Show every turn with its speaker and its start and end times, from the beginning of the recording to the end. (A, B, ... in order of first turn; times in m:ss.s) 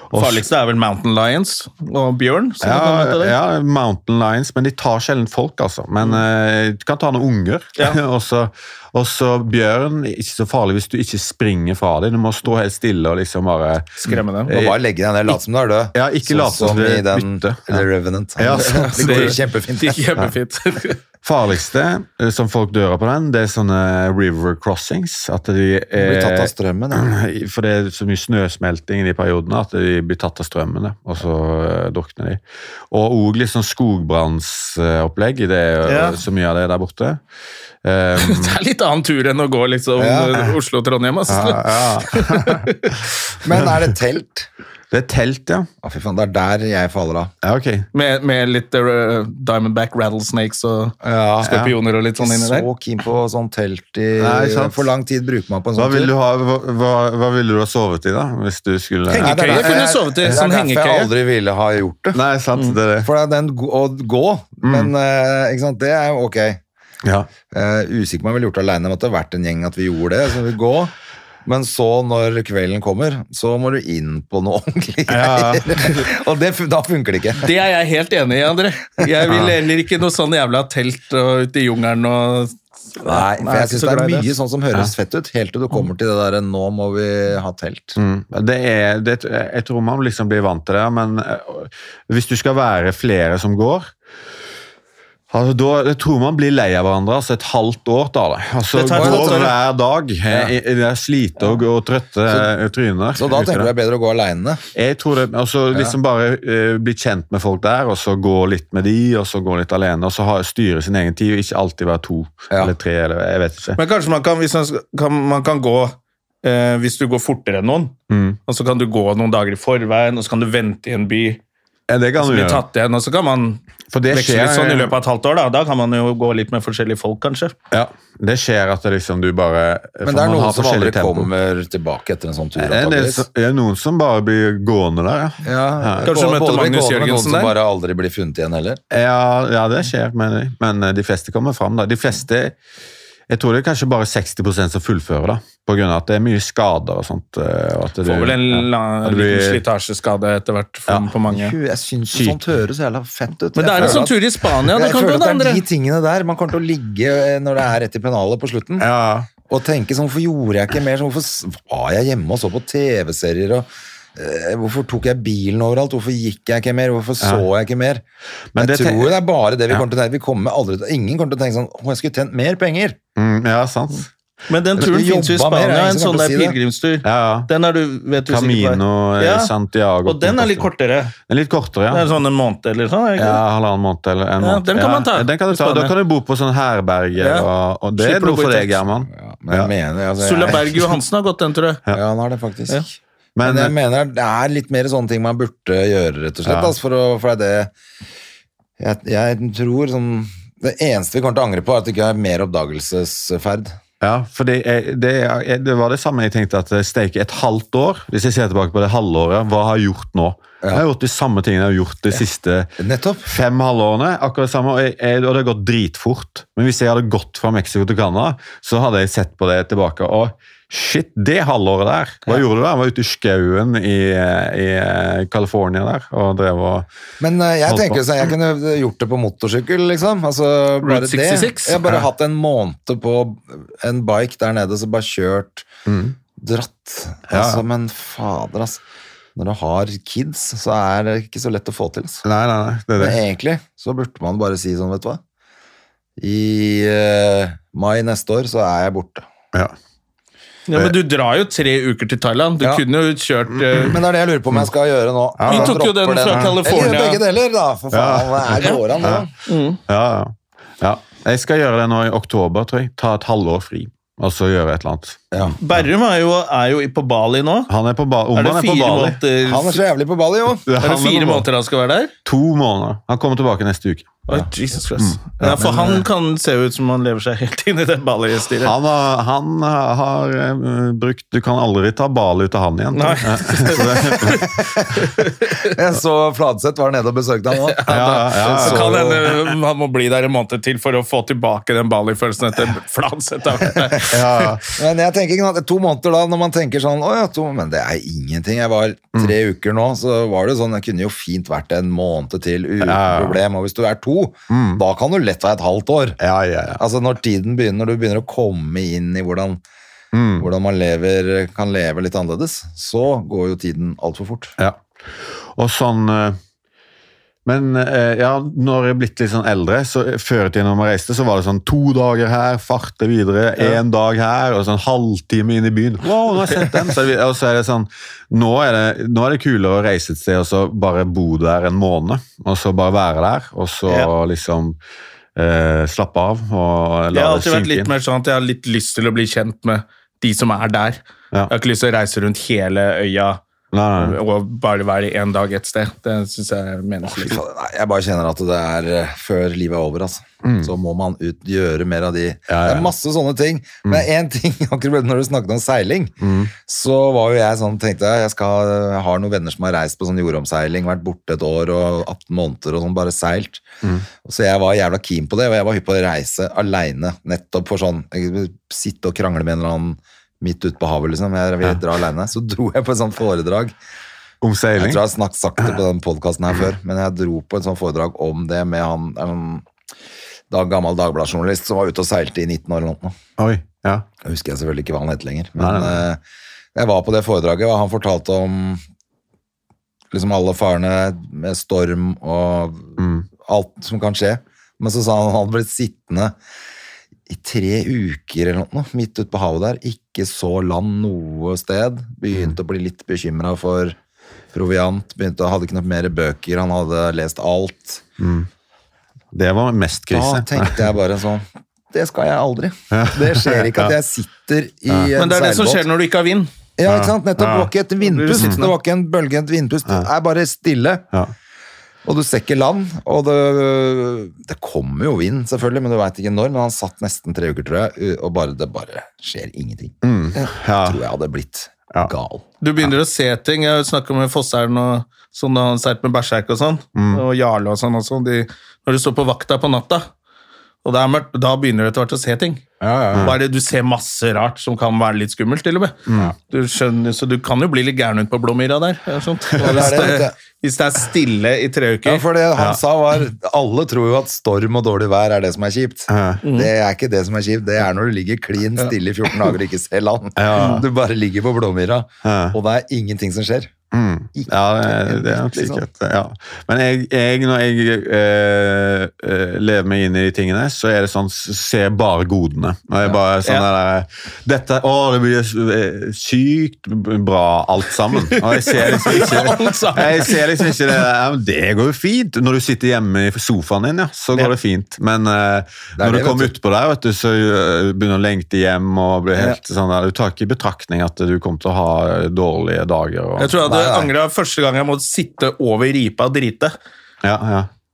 0:00.1-0:00.4 A
0:00.1-0:03.4 B
0:02.6-0:14.7 A
0:14.0-0:14.6 B
0:14.5-0:20.0 C
0:16.0-0:17.9 A
0:18.4-0:19.4 A
0:18.5-0:21.0 B
0:21.2-0:32.4 A
0:26.0-0:27.1 C
0:32.9-0:37.2 A
0:35.9-0:36.2 B
0:37.8-0:38.6 A
0:38.2-0:43.1 B
0:40.0-0:40.5 C
0:41.3-0:42.7 A
0:43.4-0:44.5 C
0:44.9-0:45.7 A
0:45.8-0:47.3 C
0:47.4-0:47.9 A
0:47.9-0:52.7 B
0:51.0-0:51.6 C
0:51.4-0:51.8 A
0:52.2-0:56.1 C
0:54.2-0:54.8 A
0:55.8-1:00.4 A
0:59.1-1:01.1 B
0:59.2-1:02.2 C
1:02.1-1:03.1 A
1:03.0-1:06.6 C
1:04.6-1:04.9 A
1:07.5-1:10.9 C
1:11.4-1:17.5 C
1:15.1-1:15.8 A
1:17.4-1:24.3 B
1:19.3-1:19.6 A
1:23.0-1:28.0 C
1:28.0-1:33.9 A
1:35.3-1:43.7 A
1:38.7-1:39.5 B
1:38.9-1:39.5 C
1:40.3-1:40.6 C
1:43.2-1:44.6 C
1:44.7-1:53.8 A
1:53.8-1:58.0 B
1:58.1-1:58.4 A
1:58.5-2:01.4 B
2:01.9-2:02.6 A
2:02.2-2:07.5 B
2:03.9-2:04.9 A
2:07.7-2:11.3 A
2:10.0-2:13.3 C
2:12.6-2:16.1 A
2:15.4-2:18.8 C
2:16.0-2:17.5 B
2:18.9-2:22.6 A
2:23.3-2:29.6 A
2:28.0-2:31.6 B
2:31.3-2:38.9 C
2:32.1-2:32.4 A
2:33.6-2:35.6 B
2:33.8-2:34.0 A
2:38.8-2:39.3 A
2:39.5-2:48.0 C
2:47.2-2:47.4 A
2:48.6-2:49.2 A
2:48.6-2:53.0 C
2:53.2-2:54.1 A
2:54.5-2:59.5 B
2:54.8-2:56.6 C
2:57.0-2:57.5 A
2:58.2-3:00.7 A
3:00.0-3:01.1 B
3:01.3-3:02.1 A
3:01.9-3:03.4 B
3:03.2-3:09.7 A
3:04.4-3:05.9 B
3:07.2-3:08.8 B
3:09.1-3:10.8 C
3:10.2-3:11.8 B
3:11.9-3:17.7 C
3:13.4-3:13.7 A
3:16.4-3:16.7 A
3:18.8-3:23.8 C
3:24.0-3:32.7 A
3:32.8-3:33.3 C
3:33.2-3:46.9 A
3:47.2-3:55.7 C
3:47.7-3:48.2 A
3:50.8-3:52.0 B
3:55.9-3:56.1 A
3:56.4-3:58.8 C
3:57.3-3:57.6 A
3:59.4-4:02.2 C
4:02.2-4:03.2 A
4:03.0-4:05.2 C
4:06.2-4:09.3 C
4:10.7-4:14.0 B
4:13.8-4:19.3 C
4:15.4-4:16.6 A
4:15.5-4:17.2 B
4:17.9-4:19.3 A
4:19.4-4:19.8 B
4:19.9-4:25.6 A
4:25.6-4:27.7 B
4:27.7-4:29.2 A
4:28.4-4:29.8 B
4:29.4-4:30.7 C
4:30.7-4:31.5 A
4:30.8-4:32.1 B
4:32.3-4:34.4 A
4:34.3-4:38.7 B
4:35.0-4:36.0 A
4:35.5-4:36.0 C
4:38.6-4:44.5 A
4:42.9-4:45.6 B
4:44.6-4:44.9 C
4:45.6-4:49.3 C
4:47.5-4:54.6 B
4:47.9-4:49.1 A
4:54.0-4:54.6 A
4:54.7-5:06.2 C
5:02.8-5:03.4 A
5:04.5-5:04.8 A
5:06.2-5:06.8 A
5:06.8-5:09.6 C
5:10.1-5:10.5 A
5:10.4-5:14.6 C
5:15.6-5:16.4 A
5:17.4-5:34.8 A
5:33.9-5:34.1 B
5:35.4-5:37.9 A
5:37.1-5:43.4 B
5:43.7-5:44.2 A
5:44.0-5:47.4 B
5:47.1-6:03.7 C
5:50.4-5:50.7 A
5:52.5-5:52.9 A
5:56.2-5:56.5 A
6:04.2-6:13.7 C
6:14.4-6:15.0 A
6:14.8-6:19.7 C
6:20.5-6:23.2 C
6:23.4-6:24.0 A
6:24.2-6:26.2 C
6:25.6-6:26.0 A
6:26.7-6:28.8 C
6:30.1-6:36.4 C
6:33.0-6:33.3 A
6:37.3-6:44.0 C
6:44.5-6:48.0 C
6:48.2-6:48.5 A
6:49.3-6:50.9 A
6:50.1-6:55.9 C
6:52.9-6:53.9 A
6:55.2-6:56.5 B
6:56.8-7:01.1 C
6:56.9-6:57.7 A
6:58.0-6:58.7 B
7:02.0-7:10.0 C
7:10.0-7:11.0 A
7:10.8-7:12.4 C
7:12.6-7:20.1 B
7:17.0-7:17.2 A
7:20.8-7:32.2 B
7:22.8-7:23.3 C
7:26.1-7:26.3 A
7:29.6-7:30.4 C
7:29.6-7:30.0 A
7:32.0-7:43.7 C
7:36.1-7:36.4 A
7:36.4-7:36.7 B
7:40.4-7:40.9 A
7:40.6-7:40.8 B
7:42.2-7:42.6 A
7:43.9-8:13.6 A
7:44.4-7:45.8 C
7:58.1-8:00.7 B
8:06.0-8:06.5 C
8:13.4-8:16.7 B
8:13.6-8:14.1 C
8:17.2-8:17.7 A